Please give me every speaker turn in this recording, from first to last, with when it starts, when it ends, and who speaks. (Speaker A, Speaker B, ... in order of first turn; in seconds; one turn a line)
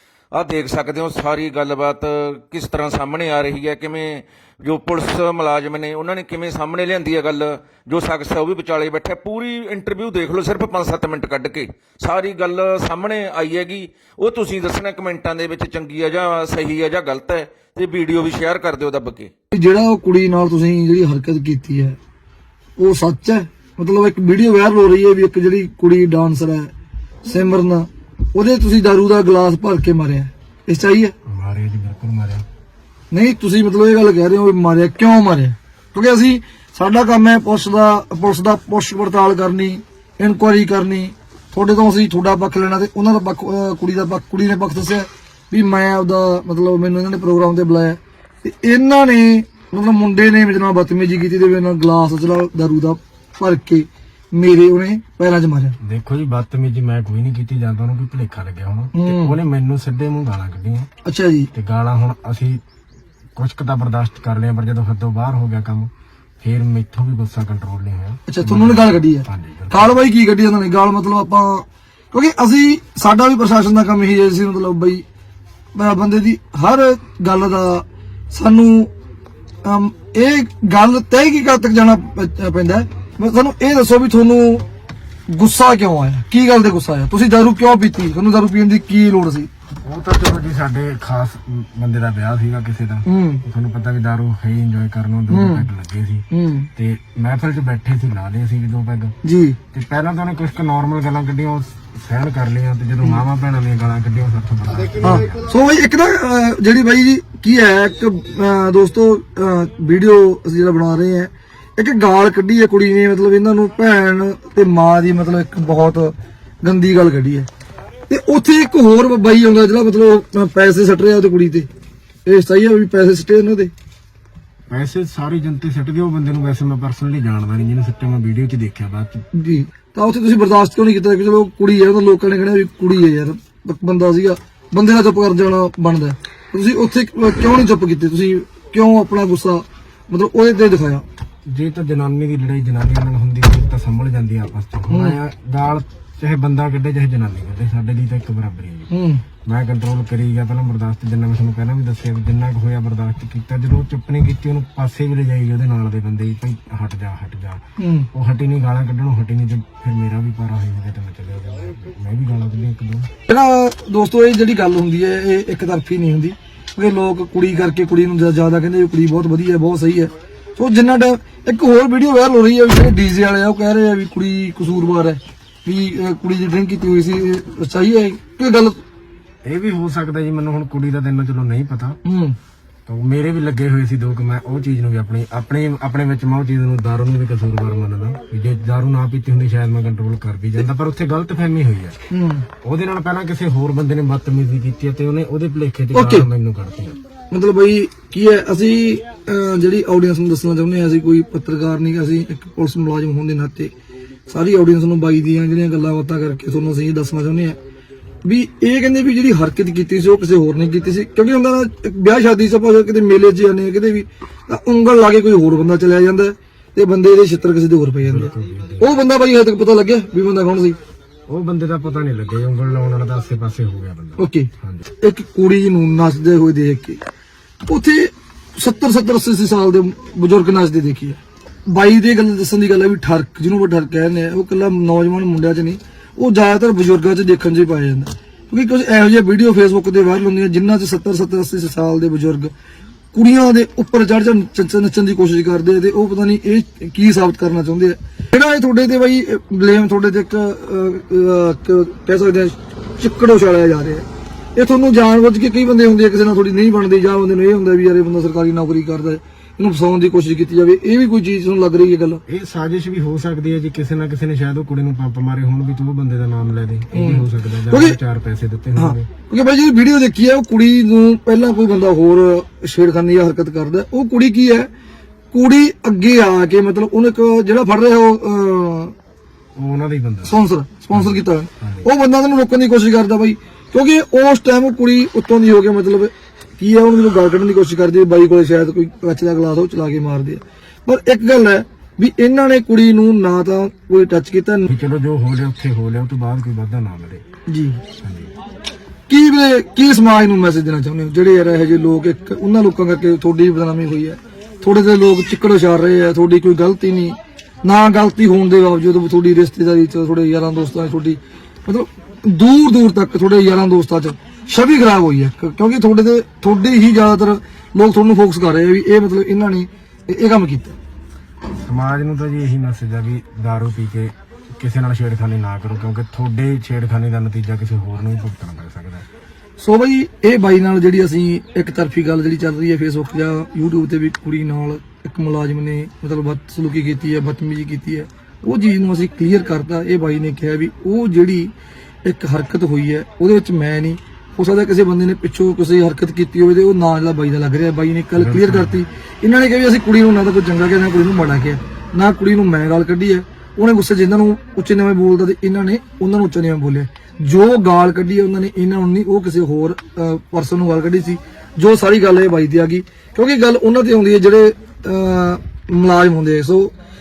Speaker A: 0.3-19.3
Speaker B: 19.5-22.0
Speaker B: 22.8-26.7
Speaker B: 27.2-31.1
Speaker C: 31.3-32.5
Speaker B: 33.1-55.8
Speaker C: 55.8-60.9
Speaker B: 59.0-59.4
Speaker B: 61.0-61.5
Speaker C: 61.5-62.6
Speaker C: 63.4-70.0
Speaker B: 68.3-75.0
Speaker B: 75.7-78.9
Speaker B: 79.6-84.7
Speaker B: 85.3-89.5
Speaker C: 89.8-96.2
Speaker B: 93.1-93.4
Speaker B: 95.3-95.7
Speaker B: 96.3-96.7
Speaker C: 96.8-99.2
Speaker B: 99.2-99.6
Speaker C: 99.7-105.5
Speaker B: 105.0-117.5
Speaker B: 118.1-121.7
Speaker B: 122.3-123.7
Speaker C: 124.7-129.2
Speaker B: 129.3-141.1
Speaker C: 141.5-148.9
Speaker B: 144.9-145.2
Speaker B: 148.9-149.2
Speaker C: 149.5-163.1
Speaker B: 157.8-158.1
Speaker B: 163.3-178.8
Speaker C: 179.4-182.0
Speaker B: 182.1-182.4
Speaker C: 182.9-192.0
Speaker B: 192.1-192.5
Speaker C: 192.6-197.0
Speaker B: 195.9-196.3
Speaker B: 197.3-203.7
Speaker B: 204.3-207.6
Speaker B: 208.2-220.8
Speaker C: 218.0-219.0
Speaker C: 221.3-224.9
Speaker B: 224.2-224.5
Speaker B: 225.0-227.0
Speaker B: 227.6-242.5
Speaker B: 243.1-262.2
Speaker C: 262.3-269.1
Speaker B: 266.9-268.0
Speaker B: 268.8-274.7
Speaker B: 275.3-278.9
Speaker C: 279.6-280.4
Speaker B: 280.3-294.7
Speaker C: 280.9-281.9
Speaker C: 294.7-297.2
Speaker B: 297.5-297.8
Speaker C: 298.0-298.3
Speaker B: 299.1-320.8
Speaker C: 321.6-329.1
Speaker B: 329.6-341.5
Speaker B: 342.1-366.7
Speaker C: 348.2-348.8